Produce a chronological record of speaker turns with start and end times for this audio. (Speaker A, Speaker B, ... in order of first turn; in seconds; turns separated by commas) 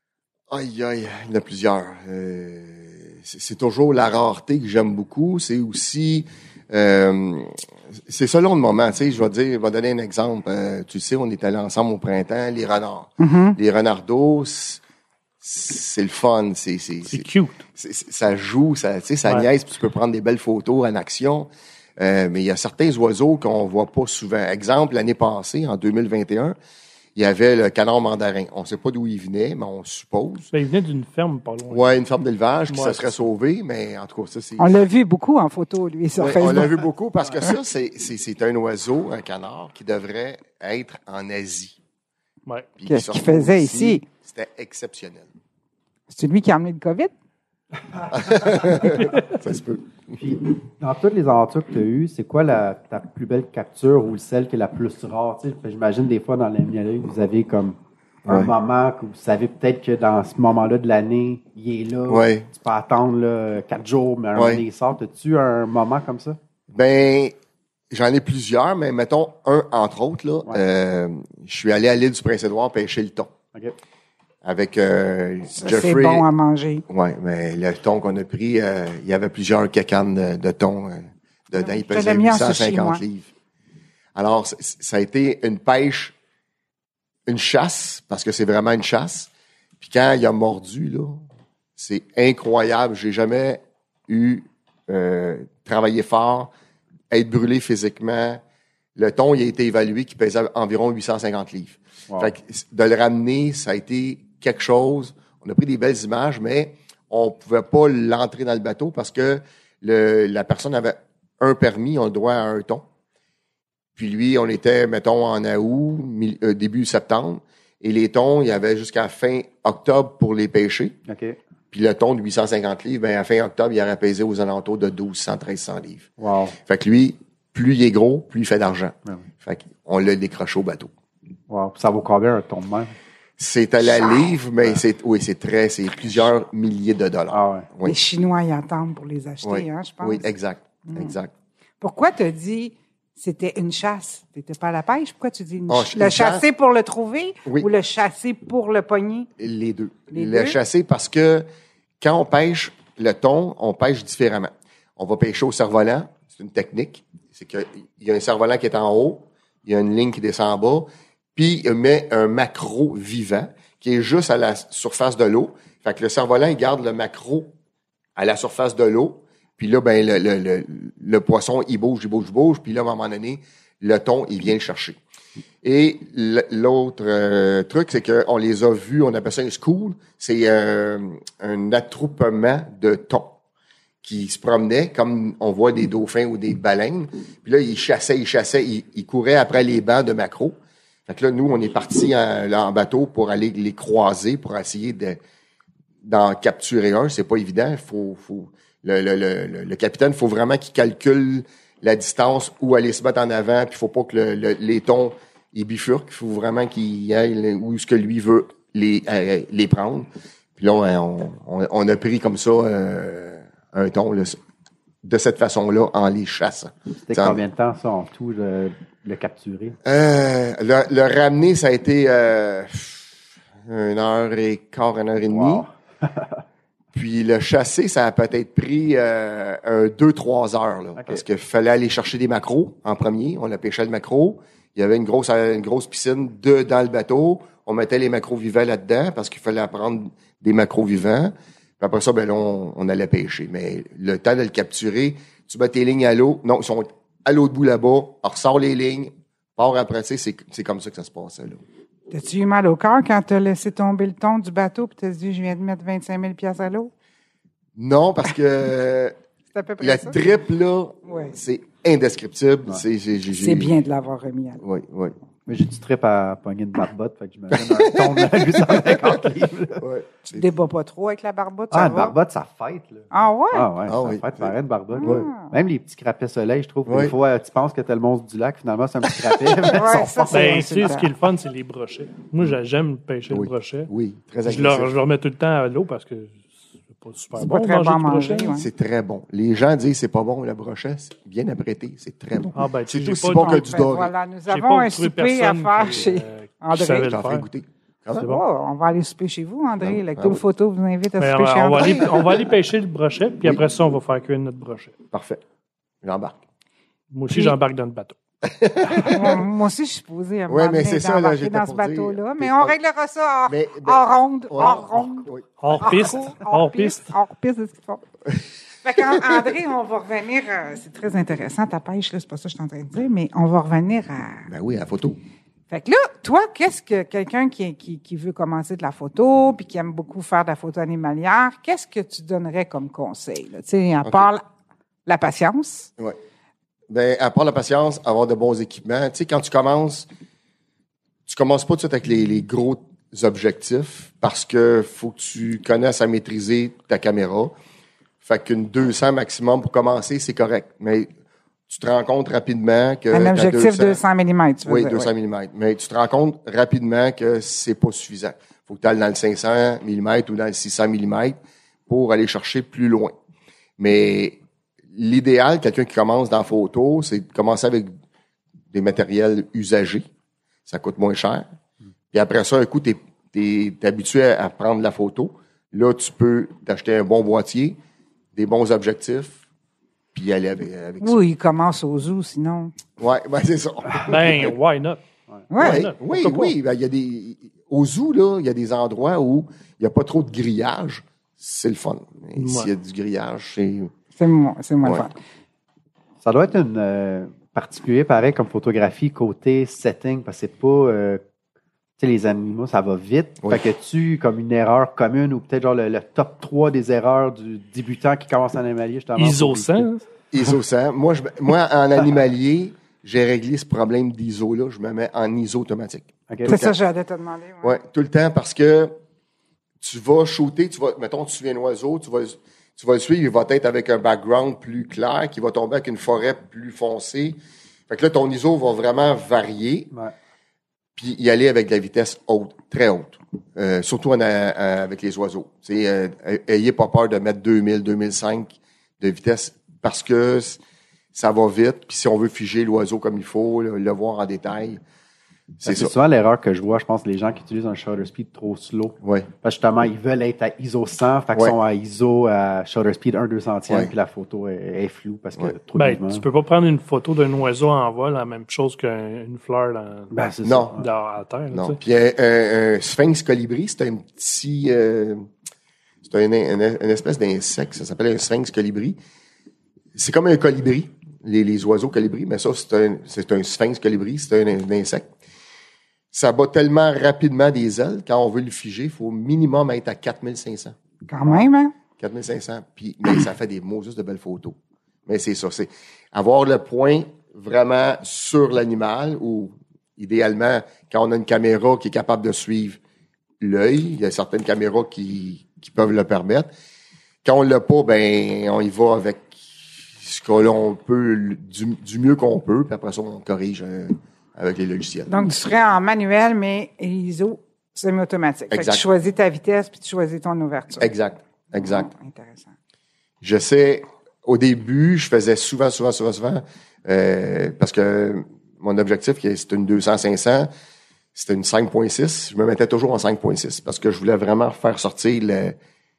Speaker A: 0.5-14.8, Speaker B: 13.2-13.6, Speaker A: 15.4-26.6, Speaker C: 17.1-17.6, Speaker A: 27.1-30.5, Speaker C: 30.5-32.0, Speaker A: 31.7-34.8, Speaker C: 32.7-33.3, Speaker B: 34.6-36.8, Speaker A: 36.2-41.8, Speaker A: 42.8-45.3, Speaker B: 42.9-44.0, Speaker B: 46.1-47.1, Speaker A: 48.1-49.9, Speaker D: 50.2-66.4, Speaker A: 58.3-58.5, Speaker A: 62.1-62.5, Speaker A: 64.4-64.6, Speaker A: 66.7-67.3, Speaker A: 67.9-73.3, Speaker A: 74.4-76.3, Speaker B: 75.5-76.8, Speaker A: 76.9-83.3, Speaker B: 81.6-83.0, Speaker A: 84.2-86.2, Speaker A: 87.3-91.2, Speaker A: 91.8-96.5, Speaker A: 97.1-98.4, Speaker A: 99.0-112.8, Speaker A: 114.0-121.0, Speaker D: 121.1-121.4, Speaker A: 121.7-126.1, Speaker D: 126.2-126.6, Speaker A: 126.7-130.9, Speaker D: 131.5-132.9, Speaker A: 133.4-138.0, Speaker D: 137.3-137.7, Speaker B: 137.8-140.3, Speaker A: 139.4-141.3, Speaker B: 140.9-141.2, Speaker B: 141.8-149.3, Speaker A: 145.7-146.5, Speaker A: 149.4-151.5, Speaker B: 150.1-150.6, Speaker A: 152.0-167.5, Speaker A: 168.2-175.0, Speaker A: 175.6-183.4, Speaker A: 184.0-190.6, Speaker A: 191.1-195.2, Speaker A: 196.0-214.4, Speaker A: 215.0-217.4, Speaker D: 217.1-219.8, Speaker A: 219.8-223.1, Speaker A: 223.7-225.7, Speaker D: 225.3-226.4, Speaker A: 226.9-251.6, Speaker D: 231.0-231.2, Speaker B: 252.1-256.9, Speaker A: 257.8-259.1, Speaker B: 259.5-260.2, Speaker A: 259.8-263.7, Speaker B: 261.1-261.4, Speaker B: 263.3-264.6, Speaker A: 264.6-265.1, Speaker D: 265.5-269.8, Speaker A: 267.5-269.1, Speaker A: 269.8-270.5, Speaker B: 270.3-272.2, Speaker D: 271.7-280.8, Speaker B: 273.1-273.7, Speaker A: 273.9-275.3, Speaker B: 274.9-275.5, Speaker A: 276.9-277.1, Speaker B: 279.7-281.1, Speaker C: 280.3-283.9, Speaker A: 283.3-284.9, Speaker C: 284.4-288.5, Speaker B: 287.4-288.7, Speaker A: 288.6-294.1, Speaker C: 292.5-293.9, Speaker B: 293.3-297.2, Speaker C: 294.5-297.5, Speaker A: 297.0-298.3, Speaker C: 298.1-298.4, Speaker B: 298.2-302.2, Speaker A: 299.8-300.4, Speaker C: 301.2-305.0, Speaker A: 301.8-302.1, Speaker A: 305.1-305.4, Speaker A: 306.0-306.4, Speaker C: 307.1-308.2, Speaker B: 307.3-307.6, Speaker A: 308.4-309.4, Speaker B: 309.0-318.0, Speaker A: 310.5-312.8, Speaker A: 313.5-316.1, Speaker C: 315.6-317.1, Speaker B: 318.8-324.5, Speaker A: 324.5-325.2, Speaker B: 325.7-334.4, Speaker B: 335.1-335.9, Speaker A: 336.9-340.1, Speaker A: 341.3-347.5, Speaker A: 348.2-351.1, Speaker A: 351.7-354.0, Speaker B: 353.1-355.1, Speaker A: 354.6-363.1, Speaker A: 363.8-364.4, Speaker A: 364.9-367.9, Speaker A: 368.7-370.1, Speaker A: 370.7-371.5, Speaker A: 372.1-377.8, Speaker A: 378.4-379.4, Speaker A: 380.1-381.2, Speaker B: 381.0-382.7, Speaker A: 383.0-384.6, Speaker C: 383.9-385.0, Speaker B: 385.5-385.9, Speaker C: 385.6-386.5, Speaker A: 385.6-393.9, Speaker C: 392.4-392.7, Speaker B: 394.2-395.2, Speaker D: 396.2-401.2, Speaker D: 402.0-409.9, Speaker C: 409.2-410.0, Speaker A: 410.3-416.8, Speaker D: 416.3-416.6, Speaker B: 416.5-417.8, Speaker A: 417.6-418.9, Speaker A: 419.8-427.4, Speaker A: 427.9-429.9, Speaker A: 431.0-440.6, Speaker A: 441.1-444.8, Speaker A: 445.6-445.9, Speaker D: 445.6-456.2, Speaker A: 449.0-449.3, Speaker C: 455.8-460.2, Speaker D: 460.1-460.9, Speaker A: 460.4-460.8, Speaker C: 460.8-461.8, Speaker A: 461.5-465.3, Speaker A: 466.0-469.0, Speaker A: 469.9-475.1, Speaker A: 476.1-481.4, Speaker B: 481.1-481.7, Speaker A: 482.0-492.8, Speaker A: 493.4-496.5, Speaker A: 497.2-499.4, Speaker A: 499.9-505.1, Speaker B: 505.1-510.9, Speaker A: 508.5-508.8, Speaker A: 510.8-511.9, Speaker B: 511.5-512.5, Speaker A: 513.2-520.5, Speaker A: 521.1-525.6